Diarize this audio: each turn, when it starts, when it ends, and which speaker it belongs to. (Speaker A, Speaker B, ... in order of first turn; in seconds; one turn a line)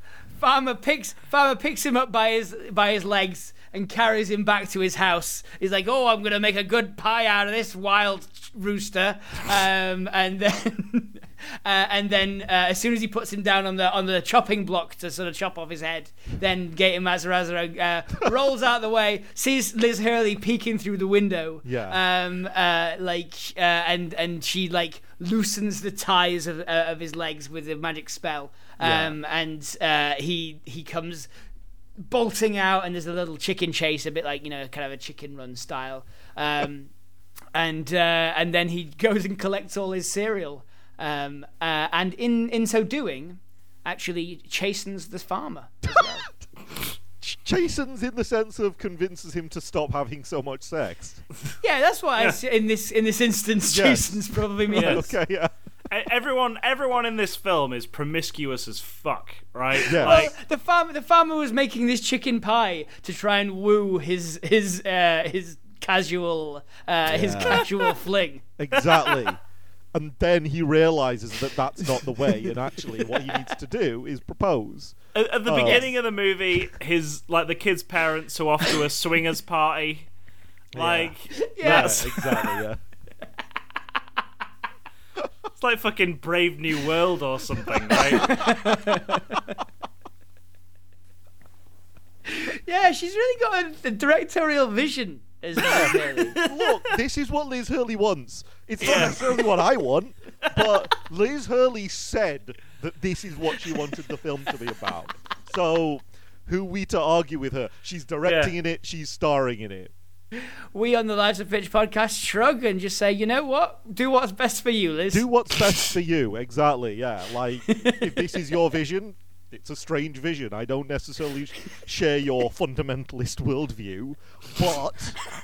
Speaker A: 0.3-31.3
Speaker B: 21.6-22.0
Speaker B: 28.8-29.2
Speaker A: 32.0-36.9
Speaker A: 37.5-46.3
Speaker B: 45.9-46.3
Speaker B: 47.2-51.2
Speaker A: 51.6-55.1
Speaker B: 53.6-55.5
Speaker C: 54.7-55.0
Speaker C: 55.9-60.3
Speaker A: 59.8-69.3
Speaker B: 59.9-60.3
Speaker B: 67.0-67.7
Speaker B: 68.6-69.4
Speaker B: 69.9-75.9
Speaker C: 75.1-80.1
Speaker B: 80.7-82.8
Speaker C: 80.7-82.2
Speaker A: 81.3-82.6
Speaker C: 85.6-88.5
Speaker B: 87.8-88.3
Speaker A: 88.0-89.6
Speaker A: 92.2-96.4
Speaker B: 95.7-109.9
Speaker C: 95.7-97.0
Speaker C: 98.8-99.5
Speaker C: 108.2-108.5
Speaker A: 110.3-115.9
Speaker B: 115.1-125.2
Speaker A: 117.7-118.5